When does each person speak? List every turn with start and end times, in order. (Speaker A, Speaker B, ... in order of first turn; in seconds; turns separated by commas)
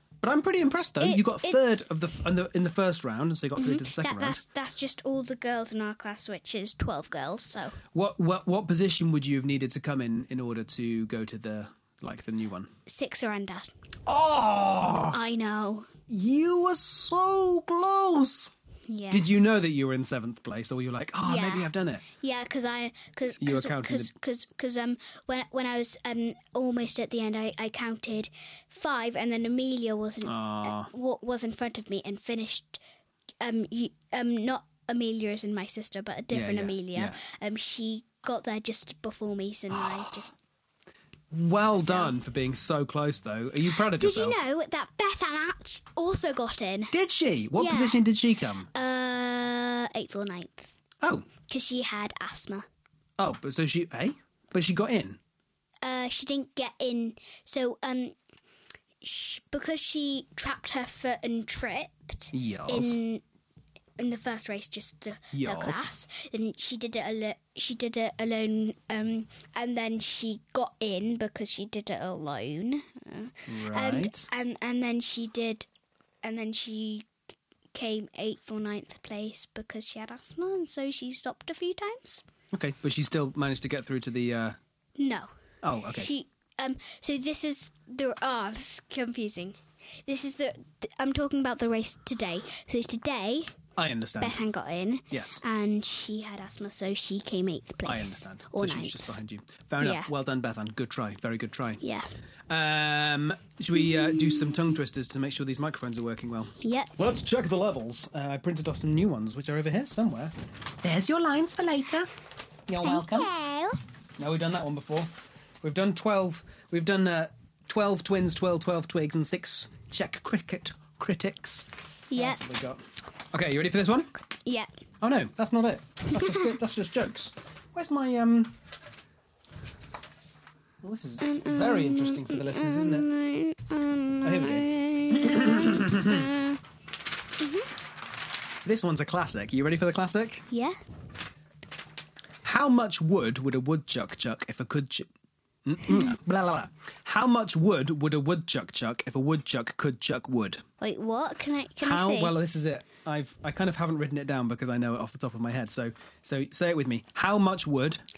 Speaker A: 0.2-4.4, Speaker B: 1.0-1.6, Speaker B: 3.6-7.8, Speaker A: 7.9-12.7, Speaker B: 12.9-13.7, Speaker A: 14.1-15.2, Speaker B: 15.1-15.9, Speaker A: 16.1-18.5, Speaker B: 18.9-19.3, Speaker A: 19.1-22.0, Speaker B: 21.2-32.8, Speaker A: 23.4-24.1, Speaker A: 30.3-30.9, Speaker B: 33.4-40.3, Speaker A: 36.3-37.2, Speaker A: 39.7-40.2, Speaker A: 41.3-44.4, Speaker B: 41.8-42.2, Speaker B: 43.8-46.9, Speaker A: 46.9-48.7, Speaker B: 47.6-48.0, Speaker B: 48.7-50.8, Speaker A: 51.0-51.3, Speaker B: 51.5-52.7, Speaker A: 53.2-55.2, Speaker B: 55.8-58.1, Speaker B: 59.0-63.2, Speaker A: 62.3-63.0, Speaker B: 64.0-75.7, Speaker A: 65.3-65.9, Speaker A: 73.5-74.3, Speaker B: 76.2-77.1, Speaker B: 77.7-82.2, Speaker A: 82.5-84.6, Speaker B: 85.0-85.3, Speaker A: 85.6-86.1, Speaker B: 86.0-93.6, Speaker A: 93.8-94.4, Speaker B: 94.2-99.2, Speaker A: 95.1-95.4, Speaker A: 97.8-101.8, Speaker B: 99.8-100.1, Speaker B: 101.8-102.1, Speaker A: 102.5-112.1, Speaker B: 104.1-104.5, Speaker B: 106.6-107.0, Speaker A: 112.7-113.3, Speaker B: 112.8-113.8, Speaker A: 114.2-115.1, Speaker A: 115.6-122.8, Speaker B: 122.1-122.4, Speaker A: 123.3-124.1, Speaker B: 124.5-124.7, Speaker A: 125.0-128.6, Speaker B: 126.1-126.4, Speaker A: 130.8-133.1, Speaker B: 131.2-136.6, Speaker A: 134.2-136.3, Speaker B: 137.4-137.7, Speaker A: 138.7-140.5, Speaker B: 140.5-140.8, Speaker A: 142.4-145.1, Speaker A: 145.7-150.6, Speaker B: 150.8-152.3, Speaker A: 151.8-158.0